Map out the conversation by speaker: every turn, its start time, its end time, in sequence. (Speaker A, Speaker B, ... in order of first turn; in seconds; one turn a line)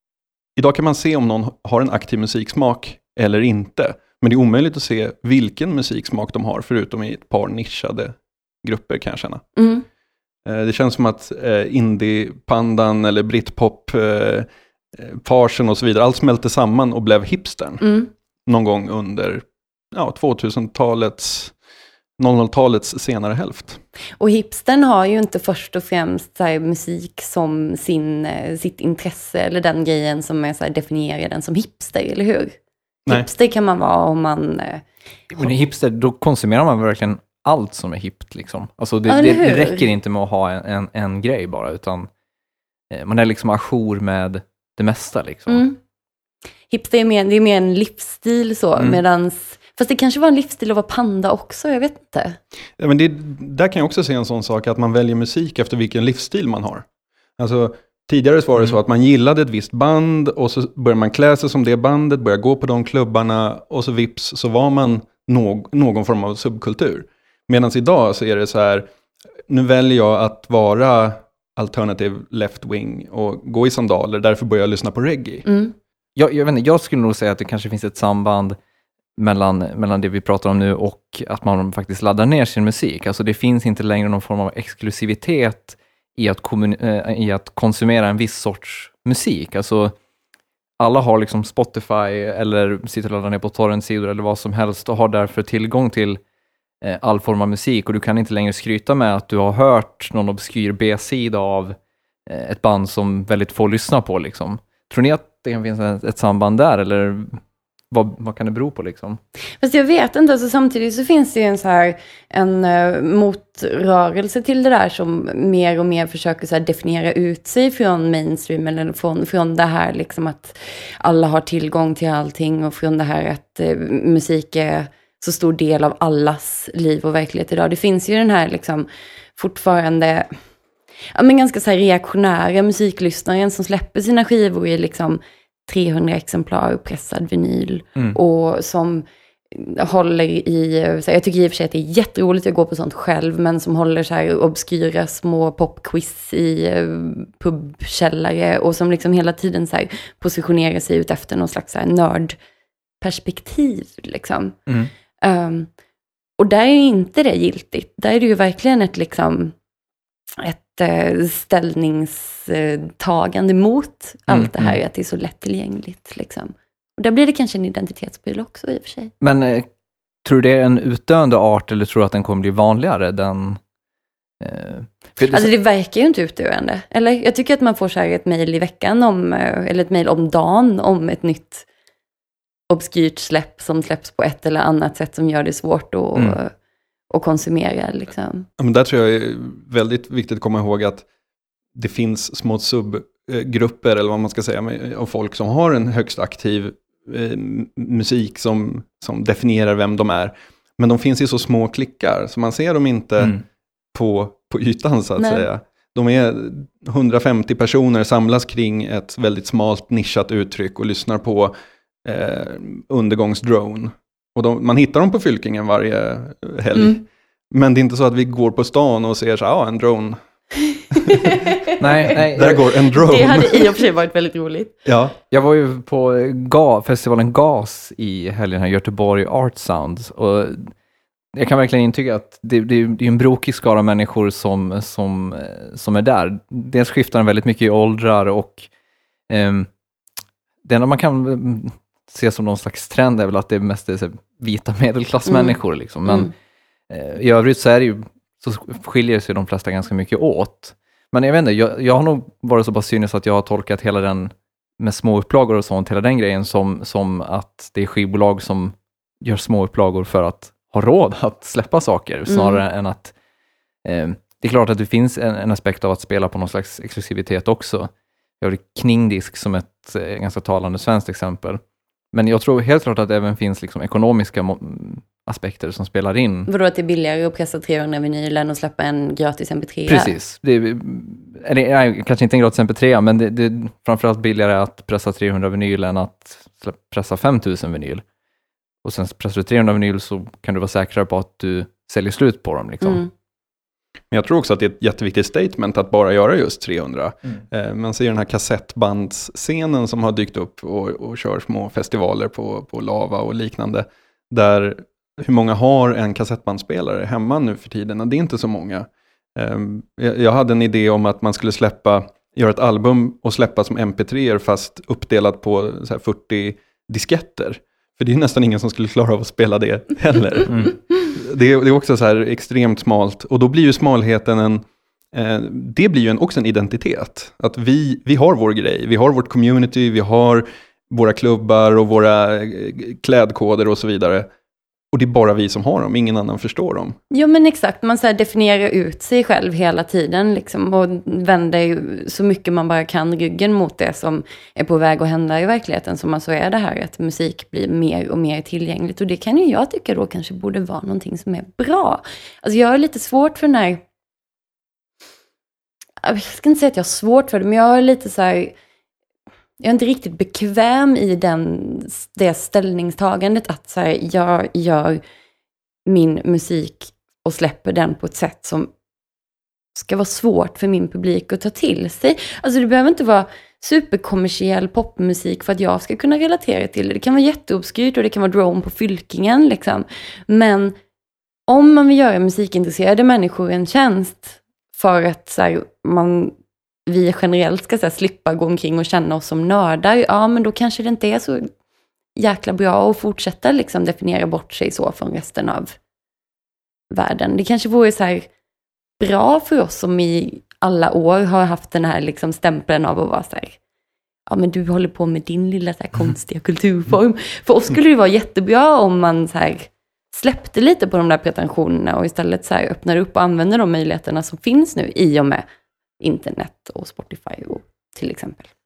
Speaker A: 0.6-9.4
Speaker B: 9.6-9.9
Speaker A: 10.4-17.9
Speaker B: 17.8-18.1
Speaker A: 18.5-21.5
Speaker A: 22.2-23.8
Speaker B: 24.2-34.8
Speaker C: 35.3-42.1
Speaker B: 39.1-39.9
Speaker C: 42.9-45.6
Speaker B: 45.5-45.8
Speaker B: 46.7-52.4
Speaker A: 52.8-56.9
Speaker A: 57.4-68.9
Speaker A: 69.5-75.5
Speaker B: 75.5-75.7
Speaker C: 76.2-78.6
Speaker C: 79.2-90.0
Speaker C: 90.8-96.2
Speaker C: 96.8-107.4
Speaker C: 107.9-109.2
Speaker B: 109.6-130.3
Speaker B: 131.2-152.4
Speaker B: 153.0-154.6
Speaker B: 155.2-155.7
Speaker B: 156.4-159.6
Speaker B: 160.4-169.1
Speaker C: 164.3-164.8
Speaker C: 169.2-169.7
Speaker C: 170.2-173.6
Speaker C: 174.4-175.5
Speaker B: 175.3-181.7
Speaker B: 182.7-186.5
Speaker B: 187.1-188.5
Speaker A: 188.6-191.1
Speaker A: 191.8-203.4
Speaker A: 203.9-220.2
Speaker B: 205.2-205.5
Speaker B: 221.1-221.7
Speaker C: 221.8-222.6
Speaker A: 222.3-223.7
Speaker B: 222.4-224.7
Speaker A: 224.9-225.2
Speaker C: 225.3-230.7
Speaker C: 231.3-238.7
Speaker C: 239.3-239.7
Speaker C: 240.6-246.3
Speaker B: 245.3-245.6
Speaker C: 246.9-263.1
Speaker B: 262.3-262.6
Speaker C: 263.9-267.9
Speaker C: 268.4-271.6
Speaker C: 272.1-276.5
Speaker B: 276.5-280.1
Speaker C: 279.9-288.0
Speaker C: 288.8-293.0
Speaker B: 292.8-293.1
Speaker A: 294.1-334.3
Speaker A: 334.9-337.0
Speaker B: 337.1-353.8
Speaker B: 356.0-358.5
Speaker B: 359.6-365.0
Speaker B: 365.9-368.7
Speaker B: 369.7-380.8
Speaker B: 381.5-386.3
Speaker B: 386.9-391.5
Speaker B: 392.2-395.8
Speaker B: 396.9-398.3
Speaker B: 399.0-403.6
Speaker B: 404.3-415.4
Speaker B: 416.0-418.5